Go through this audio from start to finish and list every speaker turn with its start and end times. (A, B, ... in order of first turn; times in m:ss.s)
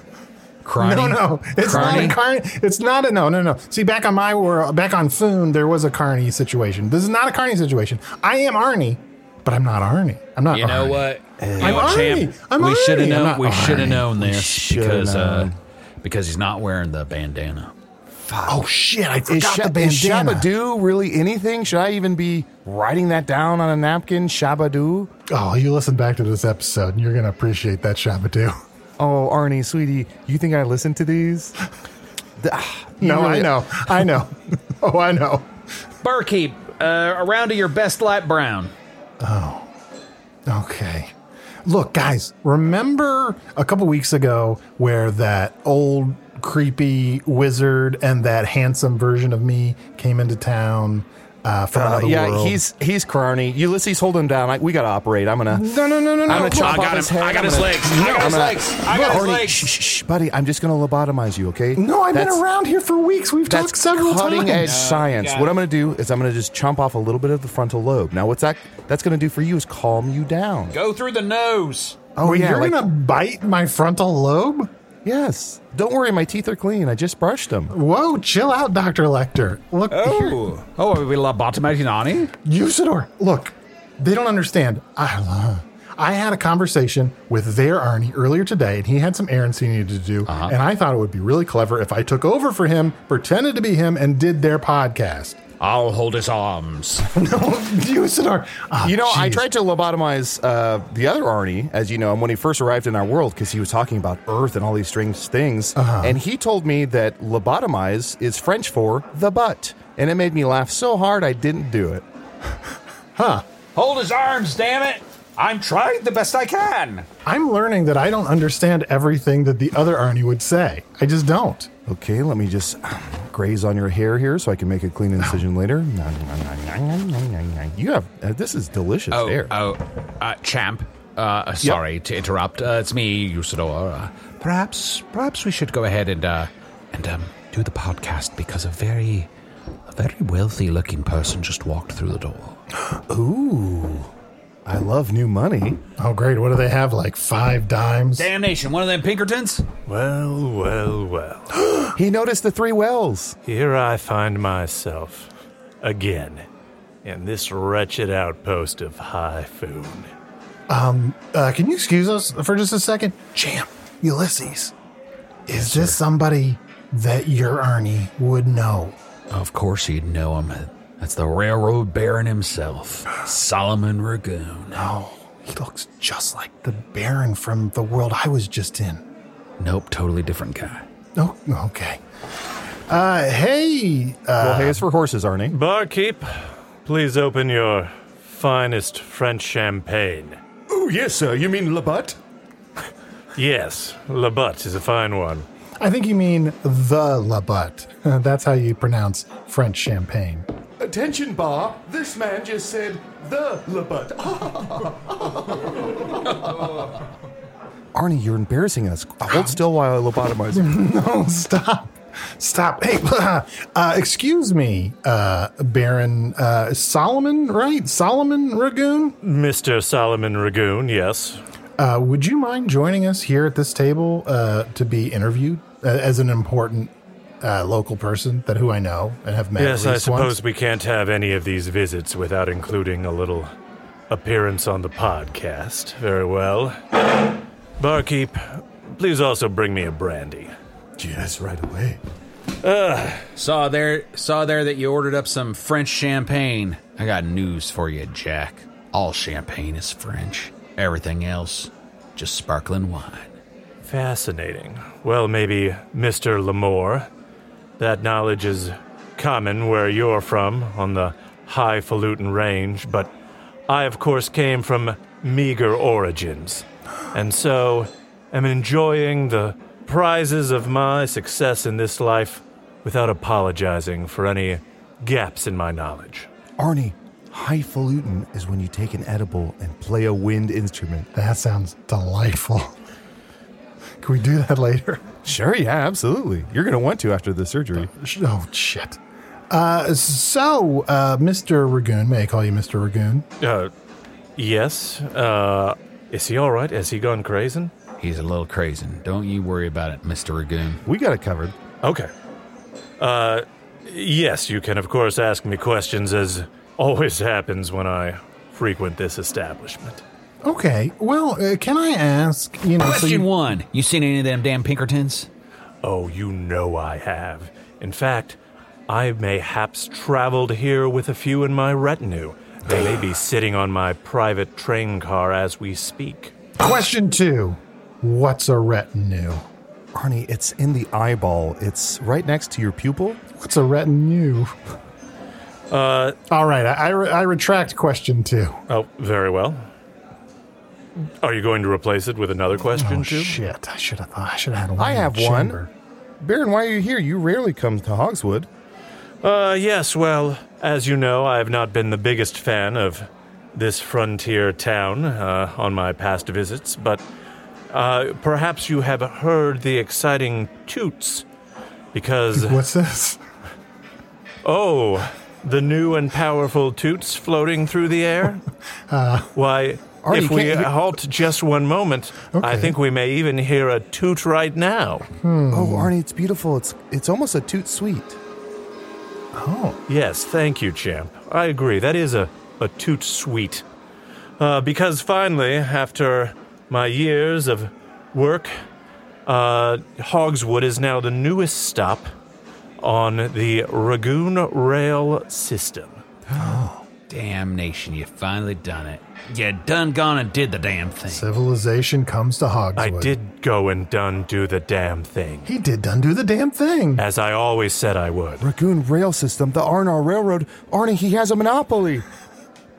0:00.6-0:02.2 A
0:00.8-0:14.1 B
0:01.7-0:02.1 C
0:10.5-0:15.5 A
0:11.4-0:12.1 C
0:14.1-0:15.6 C
0:16.0-0:17.7 A
0:18.3-0:18.6 C
0:18.4-0:20.5 B
0:19.2-0:25.1 C
0:25.3-0:28.6 B
0:29.0-0:31.5 C
0:32.4-0:34.0 C
0:33.0-0:35.5 B
0:36.0-0:38.7 A
0:39.2-0:39.7 B
0:40.5-0:41.1 B
0:41.6-0:52.6 B
0:51.7-1:02.4 C
0:55.5-0:56.9 B
0:56.3-0:59.7 A
1:01.8-1:04.7 B
1:03.5-1:10.8 C
1:04.6-1:05.6 A
1:10.7-1:12.0 A
1:12.2-1:12.9 C
1:12.2-1:14.7 B
1:15.0-1:17.7 C
1:17.7-1:20.4 B
1:19.9-1:22.3 A
1:22.4-1:35.4 B
1:30.2-1:30.5 A
1:35.6-1:37.1 A
1:37.1-1:39.4 B
1:38.8-1:52.0 C
1:45.8-1:46.2 B
1:53.2-1:53.4 B
1:53.7-1:57.1 A
1:57.2-2:01.7 B
2:01.8-2:09.5 C
2:09.1-2:19.3 A
2:19.9-2:22.6 A
2:22.9-2:24.0 B
2:24.6-2:25.8 C
2:26.0-2:28.3 B
2:28.1-2:29.6 A
2:29.9-2:31.5 D
2:31.9-2:33.4 C
2:33.4-2:35.3 D
2:35.8-2:36.4 D
2:37.0-2:40.1 D
2:40.7-2:44.7 B
2:45.5-2:49.0 B
2:45.6-2:46.0 A
2:49.3-2:54.8 A
2:54.7-2:59.0 B
2:59.6-3:00.8 A
3:01.2-3:02.0 B
3:02.9-3:04.8 B
3:04.4-3:05.6 C
3:05.5-3:10.4 D
3:10.7-3:12.2 C
3:13.3-3:15.4 D
3:15.8-3:20.5 B
3:20.8-3:25.7 C
3:26.2-3:26.7 C
3:27.9-3:30.7 C
3:30.5-3:39.2 B
3:39.2-3:41.4 D
3:41.8-3:50.4 B
3:49.6-3:53.5 D
3:54.1-3:57.0 D
3:57.8-4:00.5 D
4:01.0-4:02.0 C
4:02.6-4:03.3 D
4:03.4-4:13.3 A
4:13.8-4:17.1 D
4:17.8-4:23.1 D
4:23.7-4:36.3 D
4:36.6-4:41.1 C
4:41.1-4:42.7 B
4:44.0-4:45.0 B
4:45.2-4:47.9 C
4:47.8-4:49.0 B
4:49.5-4:53.2 B
4:53.4-4:53.7 D
4:54.4-4:57.7 D
4:58.0-5:00.8 A
5:00.8-5:01.5 C
5:01.8-5:02.1 D
5:03.0-5:10.0 D
5:10.4-5:13.3 B
5:12.8-5:15.3 A
5:15.8-5:18.4 D
5:18.9-5:26.3 D
5:26.6-5:29.4 B
5:29.9-5:33.2 C
5:33.4-5:34.5 B
5:35.7-5:36.2 D
5:36.3-5:38.6 B
5:38.7-5:39.6 D
5:41.2-5:43.4 D
5:42.8-5:45.7 B
5:44.8-5:45.6 C
5:46.2-5:48.5 C
5:49.2-5:57.0 D
5:57.7-6:01.2 D
6:01.9-6:02.6 D
6:02.3-6:03.2 B
6:04.4-6:08.4 D
6:08.9-6:09.3 B
6:09.3-6:15.0 D
6:10.0-6:10.7 C
6:12.3-6:12.7 B
6:15.2-6:15.9 B
6:15.5-6:18.2 C
6:19.3-6:19.8 B
6:19.9-6:23.6 D
6:24.4-6:28.5 D
6:29.2-6:32.1 D
6:32.8-6:36.0 D
6:36.4-6:36.8 B
6:37.1-6:41.2 A
6:41.1-6:43.1 B
6:42.8-6:45.5 D
6:45.4-6:47.0 B
6:47.0-6:48.4 D
6:48.4-6:52.0 C